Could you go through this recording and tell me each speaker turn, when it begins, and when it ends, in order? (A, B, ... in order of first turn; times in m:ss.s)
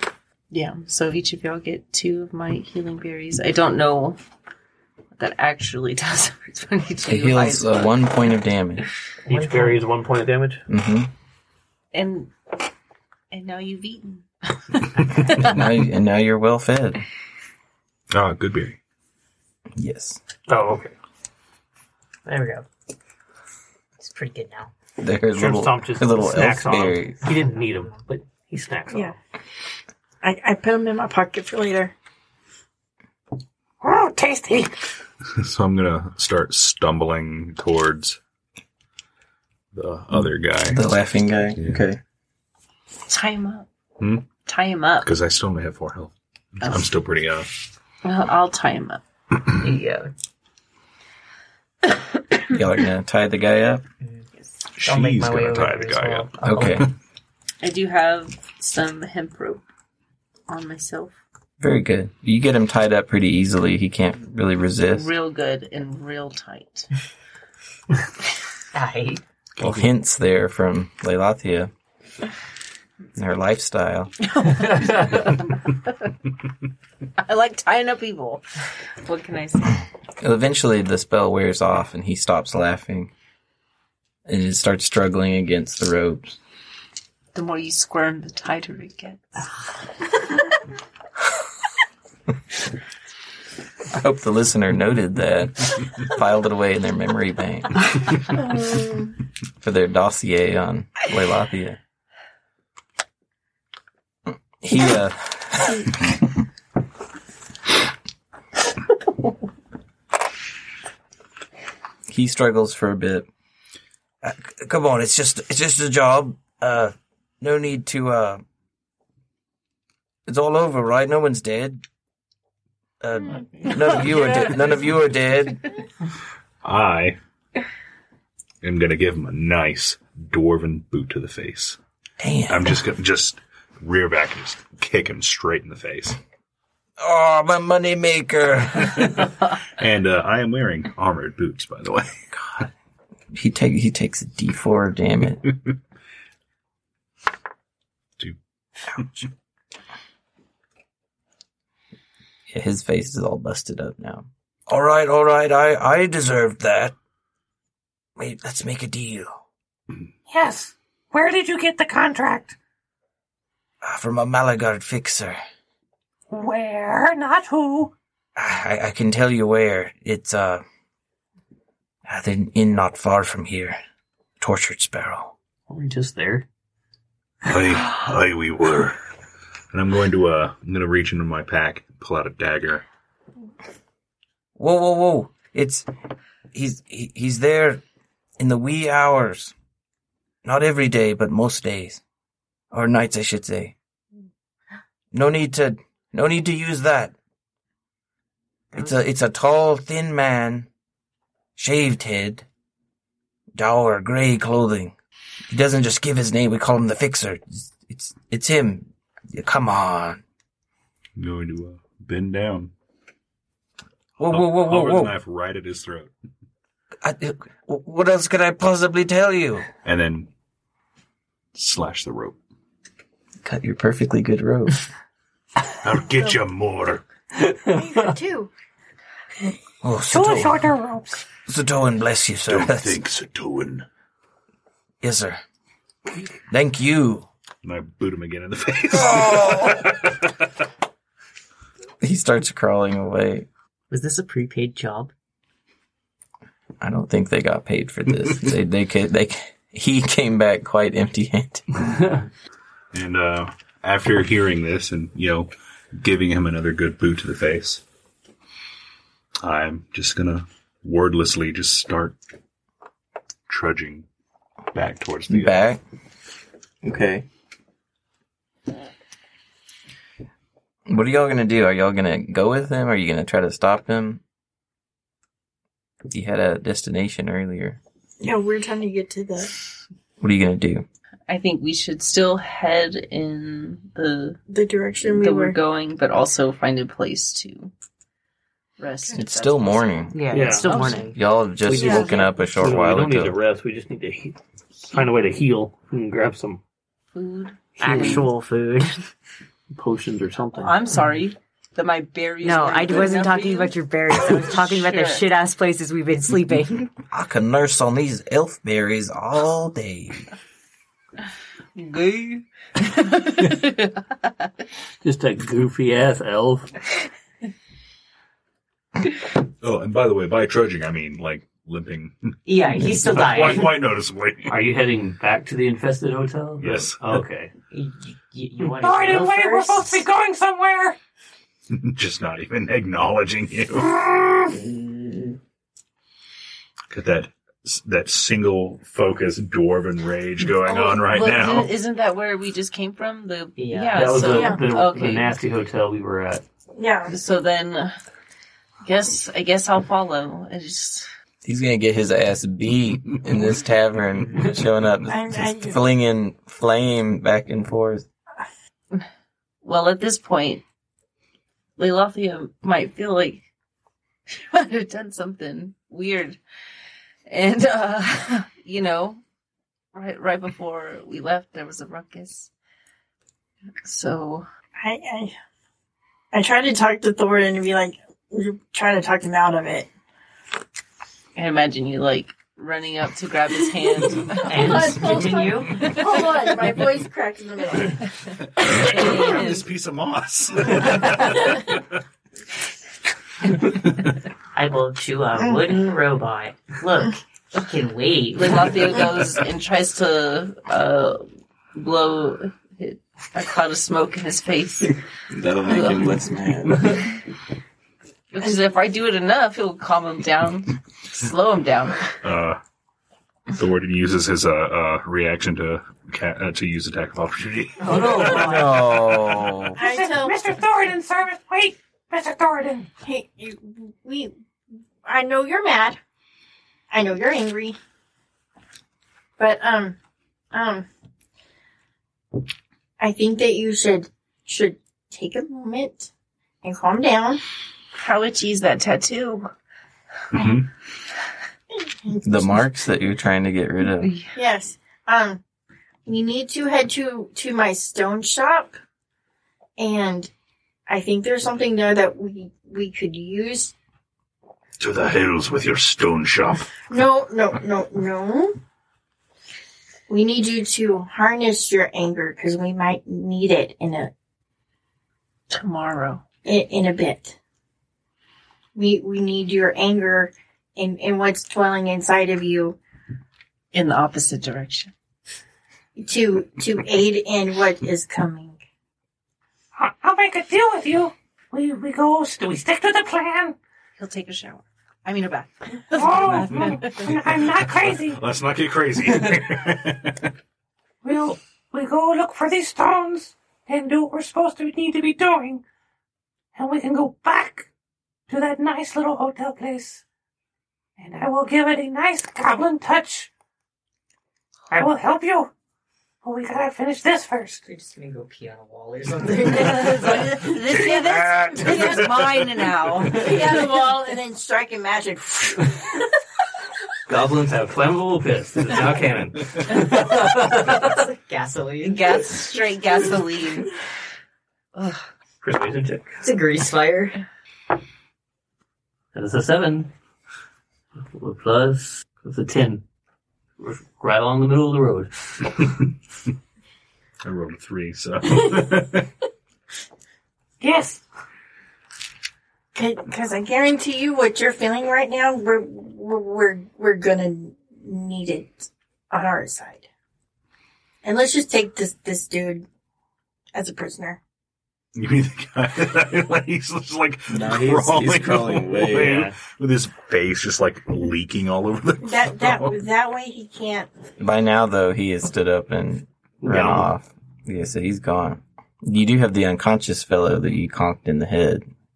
0:00.5-0:04.2 A
0:05.2-0:08.0 A
0:07.1-0:08.9 B
0:09.2-0:10.6 C
0:09.3-0:09.8 D
0:10.7-0:11.1 B
0:11.9-0:12.3 A
0:13.3-0:15.4 A
0:15.4-0:17.0 B
0:18.1-0:18.8 E
0:19.8-0:20.2 B
0:20.5-0:20.9 C
0:22.2-0:22.7 D
0:24.0-0:24.7 D
0:25.0-0:27.2 B
0:25.4-0:29.2 C
0:27.2-0:28.0 D
0:30.2-0:31.9 F
0:33.8-0:34.7 G
0:35.3-0:38.2 E
0:39.7-0:40.9 E
0:40.7-0:42.0 B
0:41.6-0:41.8 E
0:43.1-0:43.7 A
0:44.0-0:44.3 E
0:44.5-0:45.1 A
0:45.0-0:47.5 E
0:48.0-0:49.0 A
0:49.5-0:50.1 D
0:52.5-0:53.8 B
0:54.0-0:56.9 D
0:54.8-0:56.9 E
0:56.4-0:56.9 B
0:57.6-0:59.6 A
1:00.5-1:01.2 A
1:01.6-1:05.1 B
1:04.9-1:06.9 A
1:08.7-1:09.2 D
1:09.6-1:11.7 B
1:13.2-1:14.2 B
1:14.4-1:15.2 A
1:17.2-1:18.4 A
1:19.0-1:19.8 A
1:20.2-1:23.1 B
1:24.3-1:26.4 B
1:27.3-1:29.5 A
1:33.9-1:37.8 B
1:38.3-1:39.2 F
1:39.6-1:41.8 B
1:44.6-1:45.9 B
1:52.1-1:53.3 B
1:54.2-1:58.4 B
2:00.3-2:01.8 B
2:03.0-2:05.6 B
2:06.6-2:07.2 E
2:08.6-2:11.8 E
2:12.2-2:12.8 B
2:12.5-2:16.2 E
2:17.0-2:19.3 B
2:19.8-2:22.7 E
2:23.3-2:25.5 B
2:28.9-2:29.2 E
2:32.5-2:37.0 B
2:38.2-2:39.3 B
2:40.3-2:42.6 G
2:43.8-2:45.4 B
2:46.3-2:47.9 G
2:48.4-2:50.6 B
2:52.0-2:53.8 B
2:54.4-2:55.4 B
2:55.7-2:56.5 C
2:57.4-2:59.0 E
2:59.7-3:02.8 E
3:04.6-3:05.9 B
3:06.5-3:07.8 B
3:08.4-3:09.5 B
3:10.4-3:12.0 B
3:12.7-3:13.8 B
3:15.1-3:17.2 B
3:18.7-3:20.7 B
3:21.6-3:22.5 B
3:23.6-3:25.0 B
3:25.5-3:30.2 B
3:31.2-3:32.7 E
3:34.2-3:35.1 B
3:34.3-3:36.1 E
3:37.0-3:39.7 B
3:39.8-3:40.3 E
3:41.6-3:42.4 E
3:43.4-3:44.8 B
3:45.8-3:47.0 E
3:47.4-3:48.1 C
3:47.7-3:48.5 F
3:49.8-3:50.7 B
3:50.1-3:51.2 G
3:51.5-3:53.0 B
3:52.5-3:53.8 E
3:55.0-3:55.4 B
3:56.5-3:57.3 B
3:57.6-4:00.3 E
3:59.0-3:59.8 B
4:02.0-4:03.5 B
4:03.9-4:05.1 D
4:06.8-4:11.7 B
4:12.9-4:17.8 E
4:19.4-4:22.2 E
4:23.5-4:24.1 E
4:24.7-4:25.7 E
4:25.3-4:25.8 B
4:26.8-4:27.3 B
4:30.9-4:34.2 B
4:36.1-4:37.8 B
4:38.2-4:39.5 F
4:40.2-4:40.9 B
4:41.3-4:44.4 A
4:44.5-4:45.6 F
4:45.0-4:47.7 A
4:48.8-4:51.2 A
4:49.2-4:50.2 B
4:50.1-4:52.3 D
4:50.3-4:50.8 C
4:51.1-4:53.4 B
4:51.8-4:52.2 F
4:51.8-4:52.3 A
4:52.6-4:54.4 C
4:54.9-4:56.6 C
4:57.1-4:58.3 A
4:57.8-4:58.3 C
4:57.8-4:59.0 D
4:59.7-5:00.7 C
5:00.6-5:05.3 A
5:02.4-5:06.9 D
5:07.1-5:10.3 B
5:11.8-5:13.9 A
5:15.0-5:16.7 C
5:19.6-5:22.3 E
5:22.4-5:23.8 D
5:23.0-5:24.6 E
5:23.1-5:23.6 C
5:24.5-5:27.5 C
5:26.6-5:27.2 E
5:27.7-5:30.1 D
5:28.8-5:31.0 G
5:31.7-5:34.0 E
5:34.4-5:35.4 D
5:36.9-5:41.8 E
5:40.6-5:45.4 A
5:43.6-5:44.4 D
5:44.0-5:46.4 C
5:44.3-5:44.6 F
5:46.8-5:47.1 F
5:47.1-5:48.0 A
5:48.8-5:51.1 A
5:51.4-5:58.1 B
5:55.1-5:55.8 F
5:59.6-6:00.6 A
6:01.8-6:03.4 A
6:04.3-6:06.4 A
6:07.3-6:09.2 A
6:09.9-6:12.5 A
6:13.8-6:14.5 A
6:14.8-6:15.3 F
6:16.3-6:19.9 F
6:21.4-6:25.2 A
6:24.3-6:28.1 F
6:24.4-6:26.0 D
6:25.8-6:26.6 A
6:28.6-6:32.0 E
6:28.7-6:29.6 A
6:33.6-6:34.1 E
6:34.5-6:39.0 D
6:38.3-6:45.0 A
6:45.3-6:46.9 B
6:45.6-6:47.1 A
6:48.3-6:52.1 A
6:52.2-6:52.6 E
6:53.5-6:58.8 E
6:57.9-6:58.5 C
6:58.3-6:59.8 B
6:59.8-7:00.4 F
6:59.8-7:02.9 G
7:03.0-7:04.3 F
7:05.0-7:06.0 F
7:06.9-7:07.8 F
7:09.4-7:10.0 F
7:10.5-7:10.9 F
7:13.0-7:16.1 F
7:16.6-7:17.4 F
7:18.0-7:19.5 A
7:20.3-7:20.7 E
7:22.0-7:22.5 F
7:22.2-7:24.1 B
7:24.0-7:24.4 A
7:24.3-7:25.4 F
7:26.1-7:28.8 F
7:29.8-7:30.3 F
7:30.9-7:33.8 F
7:34.8-7:36.7 E
7:36.9-7:38.6 F
7:40.1-7:44.1 F
7:45.5-7:46.2 A
7:46.4-7:47.4 F
7:48.8-7:52.8 F
7:53.7-7:54.9 A
7:56.0-7:58.6 F
7:59.8-8:03.6 G
8:04.0-8:07.2 A
8:05.9-8:08.2 G
8:06.2-8:10.3 E
8:11.0-8:15.6 G
8:16.6-8:17.7 G
8:18.3-8:20.0 G
8:21.0-8:23.3 G
8:24.7-8:25.5 G
8:26.2-8:27.6 G
8:27.7-8:30.5 D
8:29.4-8:33.8 A
8:30.7-8:32.5 E
8:33.1-8:36.0 F
8:37.1-8:40.9 C
8:40.6-8:42.4 D
8:41.8-8:43.7 A
8:44.8-8:45.1 A
8:45.4-8:46.2 C
8:46.2-8:47.2 D
8:49.1-8:49.9 C
8:51.0-8:52.8 C
8:53.6-8:55.1 C
8:57.2-8:59.1 E
9:00.6-9:01.0 G
9:02.7-9:09.9 F
9:11.0-9:12.6 F
9:13.5-9:14.2 F
9:15.0-9:22.8 E
9:17.3-9:19.3 B
9:19.0-9:19.4 C
9:22.0-9:23.9 F
9:24.2-9:31.7 B
9:26.4-9:26.9 C